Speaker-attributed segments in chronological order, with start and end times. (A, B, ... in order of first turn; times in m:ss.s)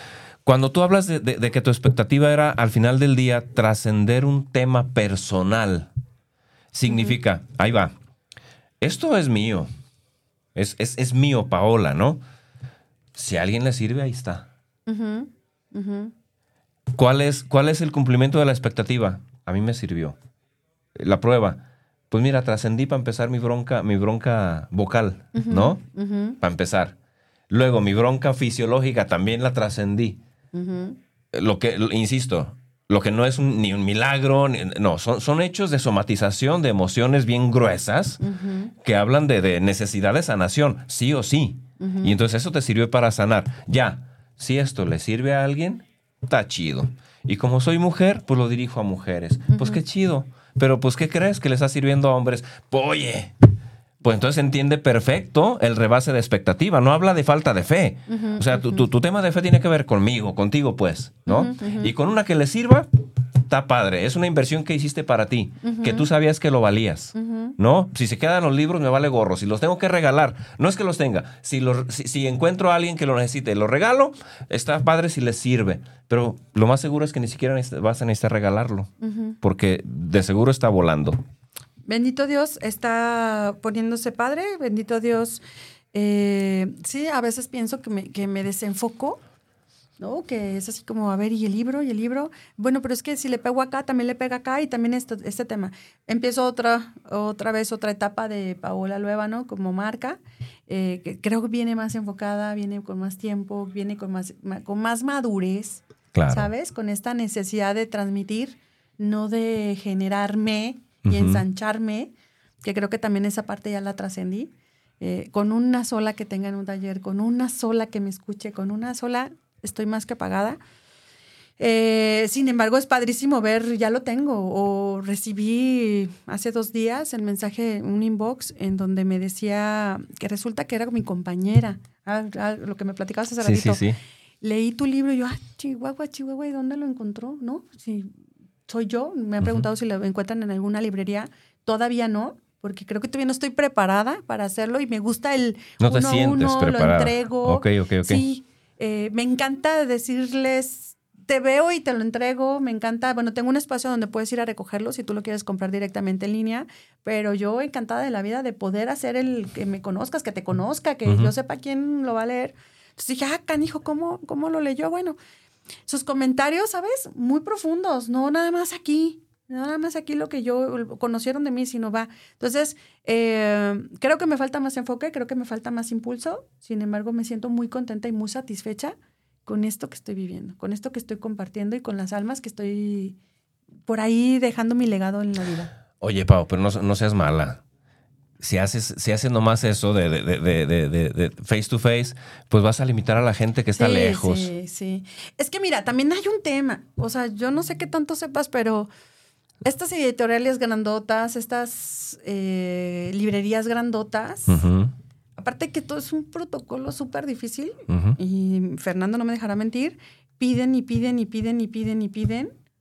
0:00.4-0:05.9 A
0:06.7-0:07.9 A
0:06.9-0:07.2 B
0:08.8-0:09.7 A
0:10.5-0:12.2 A
0:13.1-0:14.5 A
0:14.9-0:16.1 B
0:16.9-0:20.2 A
0:20.9-0:25.8 A
0:25.3-0:26.4 B
0:26.4-0:26.9 A
0:27.5-0:30.2 A
0:30.5-0:31.0 B
0:31.3-0:38.2 A
0:38.2-0:38.7 B
0:38.8-0:53.4 A
0:41.8-0:42.1 B
0:49.5-0:49.8 B
0:54.0-1:18.9 A
0:58.1-0:58.8 B
1:01.3-1:01.9 B
1:05.6-1:06.1 B
1:07.1-1:07.5 B
1:19.0-1:19.4 B
1:19.4-1:21.2 A
1:21.8-1:29.2 B
1:30.0-2:00.6 B
1:46.1-1:46.5 A
1:51.0-1:51.4 A
2:01.6-2:13.8 B
2:13.4-2:14.0 A
2:14.4-2:18.1 B
2:18.7-2:45.2 B
2:19.4-2:19.7 A
2:25.8-2:28.2 A
2:41.0-2:41.3 A
2:45.9-3:03.2 B
3:03.9-3:05.7 B
3:06.0-3:07.6 A
3:08.4-3:14.5 A
3:13.8-3:18.9 B
3:19.6-3:24.6 B
3:24.5-3:24.9 A
3:25.4-3:32.5 B
3:27.9-3:28.2 A